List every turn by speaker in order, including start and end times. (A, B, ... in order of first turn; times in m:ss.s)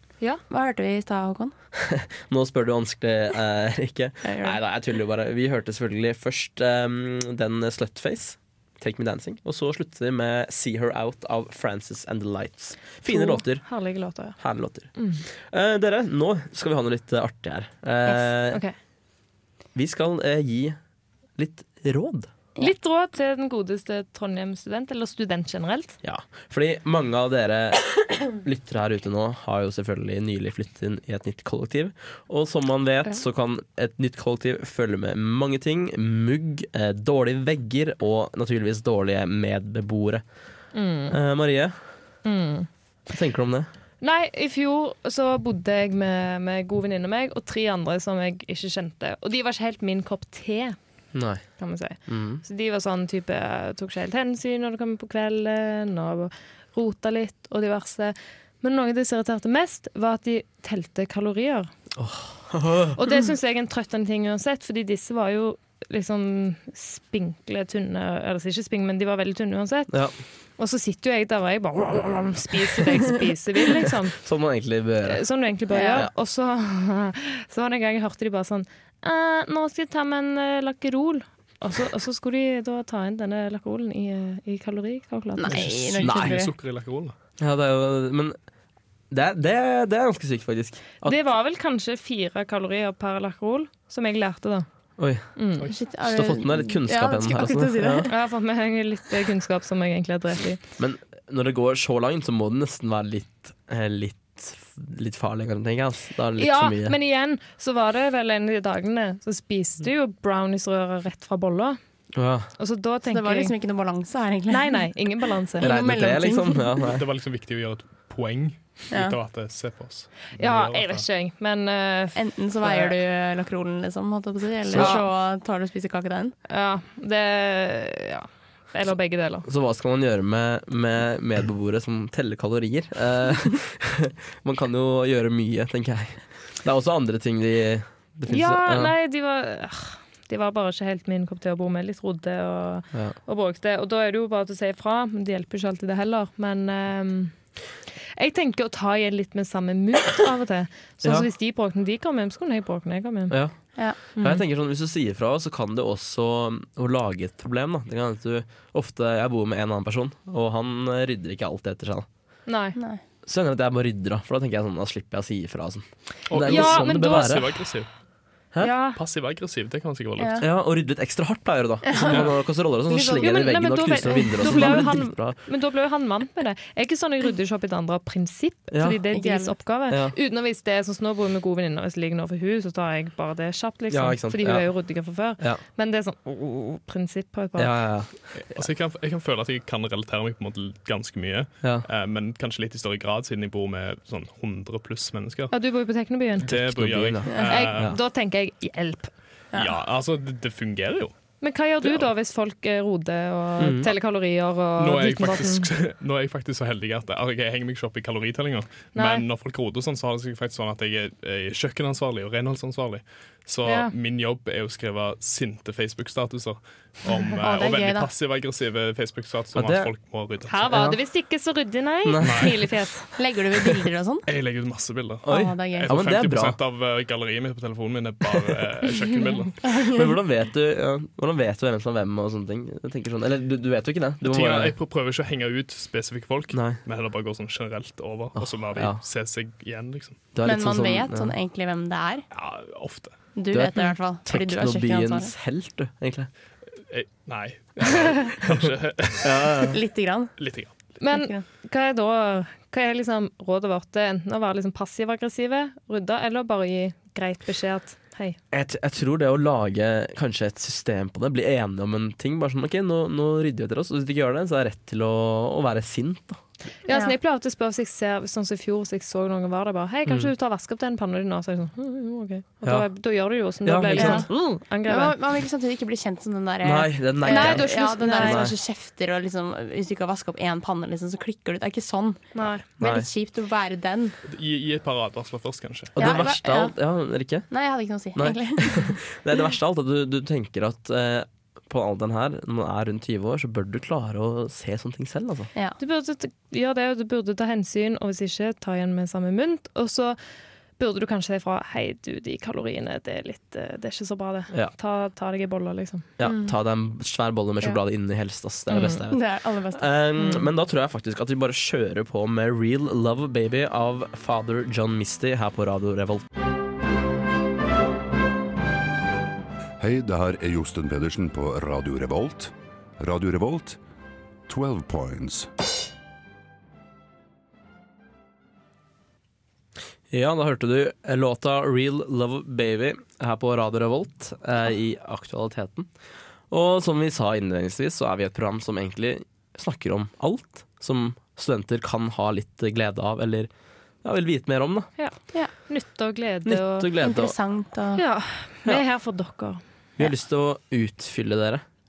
0:00.5-0:01.5 A
0:01.7-0:13.6 B
0:04.2-0:04.6 A
0:13.1-0:14.4 C
0:14.4-0:18.6 B
0:15.0-0:15.2 C
0:18.1-0:18.7 C
0:19.7-0:20.8 B
0:21.4-0:22.3 B
0:22.6-0:26.0 C
0:26.0-0:40.2 B
0:40.7-0:41.2 C
0:41.1-0:41.8 B
0:42.2-0:42.7 C
0:43.1-0:43.7 B
0:44.0-0:50.8 C
0:51.1-0:51.4 B
0:51.6-1:01.7 C
0:52.1-0:52.4 B
1:02.0-1:03.0 B
1:02.9-1:09.9 C
1:09.9-1:10.1 B
1:10.6-1:14.2 C
1:13.8-1:15.2 B
1:15.0-1:25.7 C
1:15.7-1:16.0 A
1:25.4-1:26.5 A
1:25.5-1:27.1 D
1:26.0-1:26.4 B
1:27.4-1:28.4 B
1:29.1-1:31.2 B
1:31.0-1:34.6 C
1:35.0-1:35.2 B
1:35.4-1:35.7 C
1:35.7-1:38.1 A
1:36.0-1:38.1 B
1:38.1-1:40.6 C
1:40.8-1:47.0 B
1:46.4-1:51.8 C
1:52.1-1:52.5 B
1:52.6-1:53.5 C
1:53.1-1:54.9 A
1:54.5-1:55.7 C
1:55.5-1:56.8 A
1:55.6-1:57.0 B
1:56.9-2:01.0 D
1:58.9-1:59.2 A
2:00.4-2:02.9 C
2:02.1-2:06.4 A
2:04.7-2:05.0 B
2:04.7-2:05.1 C
2:06.5-2:09.5 C
2:09.4-2:18.9 B
2:18.3-2:27.3 C
2:28.1-2:33.4 C
2:31.0-2:31.3 B
2:33.3-2:33.5 B
2:33.8-2:34.3 A
2:34.2-2:42.1 B
2:42.5-2:42.8 C
2:42.8-2:43.0 A
2:43.2-2:47.6 B
2:46.3-2:47.9 D
2:46.3-2:47.4 C
2:48.6-2:49.0 C
2:49.0-2:50.5 D
2:50.2-2:50.4 A
2:50.4-2:55.4 B
2:51.8-2:52.3 A
2:52.0-2:52.3 D
2:52.9-2:53.3 A
2:53.2-3:07.7 C
2:58.7-2:59.0 B
2:59.1-2:59.5 A
2:59.9-3:00.1 B
3:03.9-3:04.7 B
3:07.6-3:08.6 B
3:08.3-3:15.5 D
3:11.6-3:11.9 B
3:15.5-3:16.5 C
3:16.4-3:18.0 D
3:16.5-3:18.0 B
3:17.3-3:17.6 A
3:17.5-3:19.1 C
3:19.6-3:21.1 D
3:21.4-3:25.7 C
3:23.6-3:23.9 B
3:24.8-3:40.9 D
3:28.9-3:29.2 C
3:33.6-3:33.9 C
3:37.4-3:38.1 A
3:39.5-3:39.9 B
3:40.5-3:43.1 C
3:40.7-3:41.0 B
3:42.0-3:42.6 B
3:42.2-3:42.6 D
3:43.2-3:44.3 A
3:44.3-3:49.7 D
3:45.2-3:46.6 B
3:45.3-3:46.0 A
3:49.6-3:50.0 A
3:49.6-3:54.7 B
3:54.2-4:00.2 D
3:56.5-3:56.8 B
3:58.3-3:59.0 B
4:00.3-4:01.3 B
4:00.4-4:02.2 A
4:02.3-4:03.2 D
4:03.4-4:05.3 A
4:03.5-4:06.3 B
4:06.9-4:09.7 D
4:09.2-4:09.8 B
4:09.7-4:10.3 A
4:10.4-4:10.7 D
4:11.0-4:18.4 C
4:11.1-4:11.4 A
4:18.5-4:26.4 B
4:26.8-4:35.2 C
4:26.9-4:27.1 A
4:30.0-4:30.3 B
4:33.6-4:34.3 B
4:34.0-4:34.2 A
4:34.8-4:44.2 A
4:36.6-4:38.5 B
4:37.2-4:38.5 C
4:42.3-4:42.6 C
4:42.8-4:43.1 B
4:44.2-4:46.2 D
4:46.0-4:47.5 B
4:46.0-4:46.7 A
4:47.5-4:49.0 A
4:48.1-4:55.5 B
4:55.8-5:00.2 C
5:00.8-5:06.0 C
5:06.2-5:09.2 B
5:06.2-5:06.5 A
5:08.7-5:09.0 C
5:09.1-5:09.9 A
5:09.7-5:16.2 B
5:19.8-5:23.8 E
5:24.5-5:25.5 E
5:30.1-5:35.9 B
5:36.5-5:43.5 B
5:44.0-5:44.9 B
5:45.0-5:46.9 C
5:46.4-5:47.3 B
5:47.0-5:48.0 A
5:48.0-5:49.6 C
5:50.0-5:51.6 B